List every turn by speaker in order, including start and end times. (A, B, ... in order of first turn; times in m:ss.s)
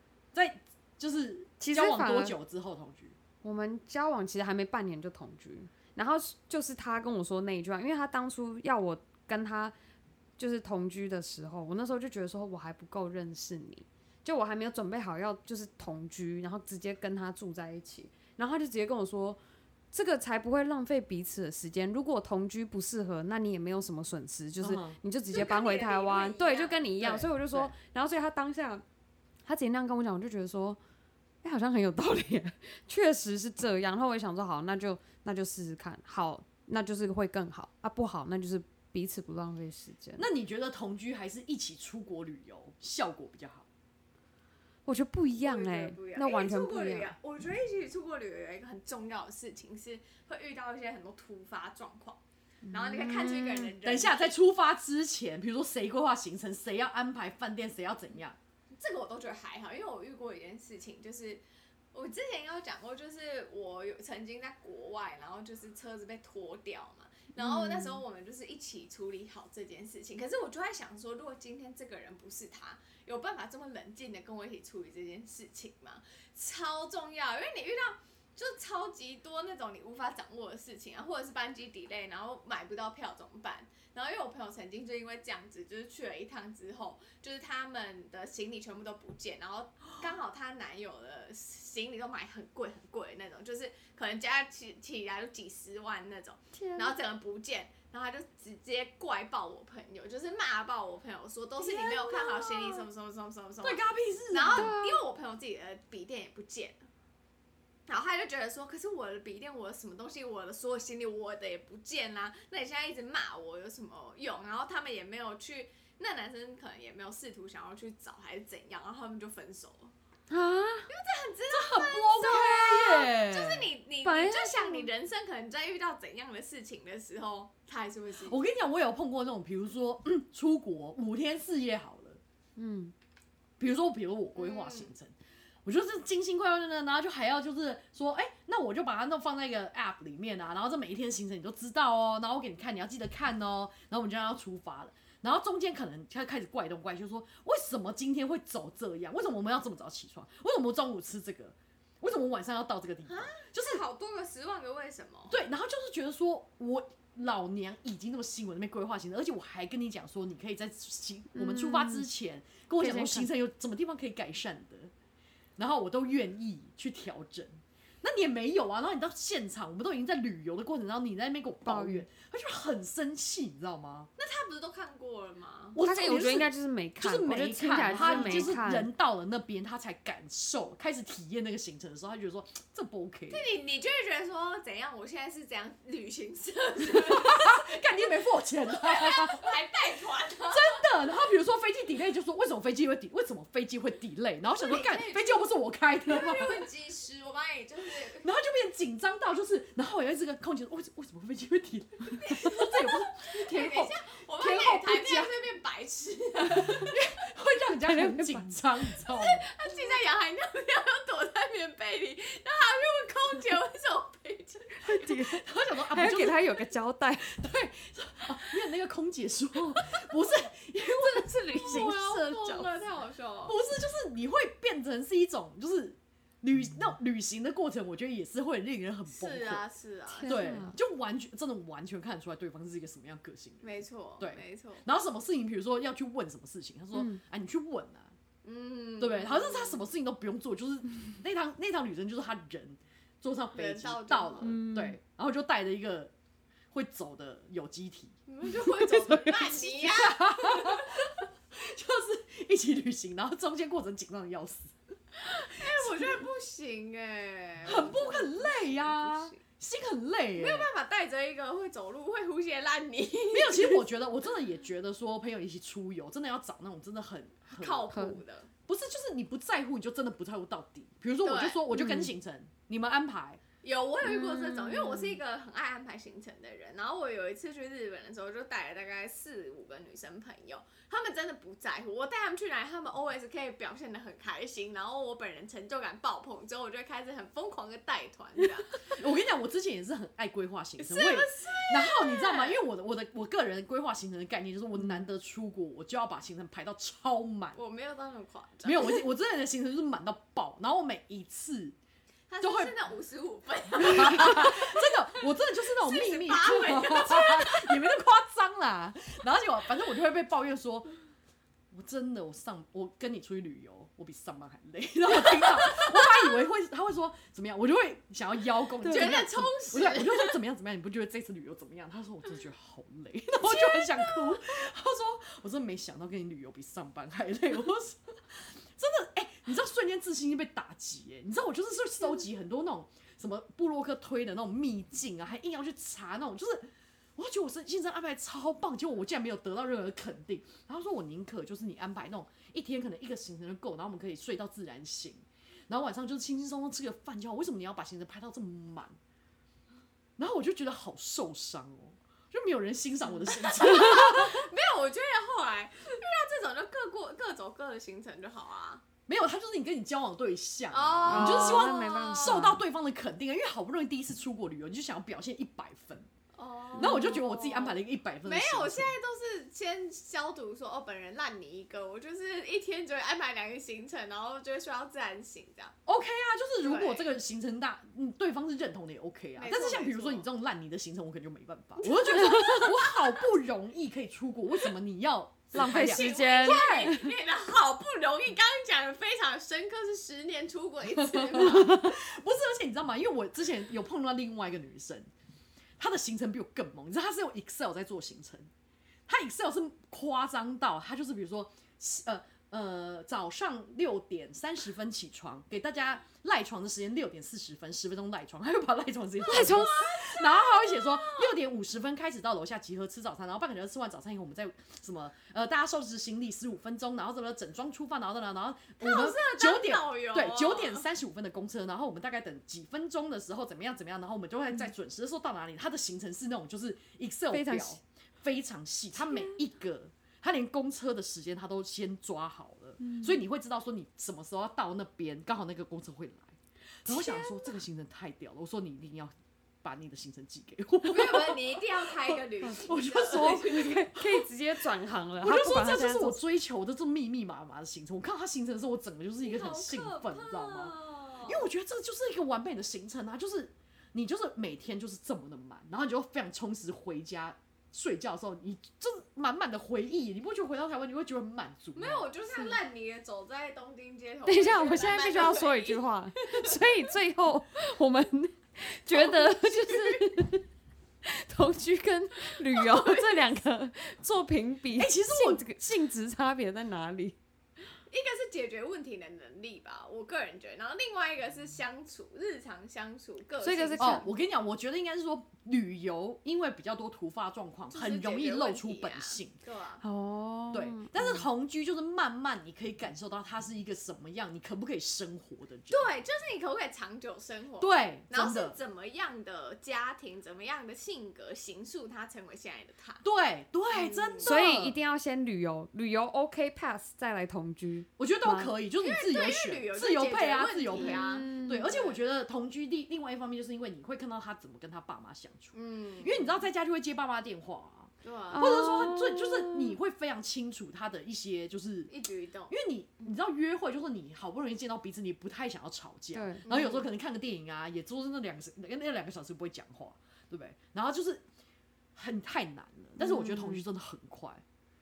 0:00.3-0:03.2 A
0:01.6-0:02.4 B
0:03.4-0:09.7 B
0:10.4-0:19.4 B
0:19.9-0:28.8 B
0:24.6-0:25.0 A
0:25.3-0:26.8 C
0:27.0-0:27.7 A
0:29.4-0:30.8 B
0:31.4-0:40.2 B
0:40.2-0:43.6 A
0:44.8-0:47.1 B
0:45.4-0:52.2 C
0:52.6-0:53.7 B
0:52.7-0:54.3 C
0:53.8-0:58.4 A
0:58.7-1:01.4 C
1:01.9-1:46.8 C
1:07.4-1:08.0 B
1:36.5-1:36.9 B
1:41.6-1:42.9 A
1:43.6-1:44.7 A
1:44.5-1:45.0 B
1:47.9-1:59.9 C
2:00.3-2:00.9 B
2:00.9-2:08.4 C
2:01.5-2:03.7 A
2:04.0-2:04.9 B
2:08.2-2:12.2 A
2:12.6-2:12.9 B
2:13.6-2:33.8 A
2:14.4-2:14.9 C
2:33.0-2:35.4 C
2:35.3-2:44.9 A
2:41.3-2:42.1 B
2:42.8-2:43.3 B
2:45.6-2:54.1 A
2:51.6-2:52.0 B
2:54.2-2:55.8 C
2:55.7-3:03.4 A
2:55.8-2:58.9 B
2:57.8-2:58.6 C
3:03.3-3:08.1 C
3:06.8-3:09.5 A
3:08.6-3:10.8 C
3:10.5-3:16.7 A
3:14.5-3:15.5 C
3:16.0-3:18.3 C
3:18.1-3:25.3 A
3:22.1-3:27.0 C
3:26.4-3:29.4 A
3:27.8-3:28.5 B
3:29.0-3:34.8 C
3:34.8-3:37.4 B
3:35.0-3:36.6 A
3:37.2-3:42.7 A
3:41.1-3:43.6 C
3:43.4-3:49.6 A
3:49.1-3:50.5 C
3:50.1-3:50.8 B
3:50.2-3:58.1 A
3:53.6-3:54.8 C
3:56.9-3:57.2 B
3:58.4-3:59.8 C
3:59.0-4:06.1 A
4:03.5-4:04.6 C
4:04.4-4:05.0 B
4:06.7-4:08.1 A
4:08.3-4:10.9 C
4:09.0-4:16.2 A
4:15.3-4:19.4 C
4:17.6-4:20.7 A
4:20.3-4:23.9 C
4:23.3-4:27.9 A
4:27.5-4:28.5 C
4:27.9-4:28.2 B
4:28.7-4:33.4 A
4:31.2-4:31.6 C
4:31.7-4:32.1 B
4:33.6-4:48.9 C
4:34.0-4:35.2 B
4:48.9-4:57.6 A
4:50.8-4:52.6 C
4:57.6-4:59.0 C
4:58.6-5:01.8 A
5:02.3-5:04.9 C
5:02.4-5:02.7 A
5:03.8-5:10.9 A
5:05.7-5:07.9 C
5:11.7-5:49.0 A
5:15.3-5:16.2 C
5:18.8-5:20.4 C
5:23.4-5:24.4 C
5:50.2-5:54.5 A
5:53.1-5:58.8 C
5:59.1-6:06.1 A
6:00.7-6:02.5 C
6:01.1-6:02.6 B
6:06.3-6:15.8 C
6:06.8-6:08.9 A
6:06.8-6:07.1 B
6:15.8-6:26.9 A
6:16.6-6:17.1 C
6:19.4-6:20.3 C
6:21.9-6:22.7 B
6:22.2-6:23.1 C
6:25.5-6:27.1 B
6:25.6-6:31.8 C
6:30.9-6:35.1 A
6:31.6-6:31.9 B
6:35.8-6:38.5 A
6:39.1-7:24.3 A
6:49.2-6:51.4 C
6:49.2-6:49.7 B
6:58.8-7:00.8 C
7:07.3-7:07.8 B
7:09.0-7:09.4 B
7:12.8-7:13.2 B
7:16.9-7:17.5 B
7:20.8-7:23.7 C
7:22.4-7:26.2 B
7:25.2-7:42.1 A
7:29.2-7:31.4 C
7:41.8-7:46.9 C
7:44.3-7:50.4 B
7:48.9-7:50.2 C
7:51.0-7:57.2 B
7:52.4-7:53.2 C
7:54.7-7:55.5 A
7:57.9-8:04.1 C
8:03.4-8:04.0 B
8:03.8-8:09.4 A
8:07.7-8:09.8 C
8:09.8-8:11.2 B
8:10.5-8:15.9 A
8:15.7-8:23.0 C
8:17.6-8:18.6 A
8:23.0-8:24.8 A
8:23.7-8:24.3 C
8:24.2-8:28.5 B
8:28.0-8:41.9 A
8:28.8-8:32.0 C
8:30.8-8:31.7 B
8:35.5-8:36.3 C
8:38.0-8:38.9 C
8:38.3-8:39.8 B
8:41.9-8:42.5 C
8:42.5-8:51.2 A
8:46.1-8:46.4 B
8:46.4-8:46.9 C
8:51.9-8:54.4 A
8:53.0-8:53.6 B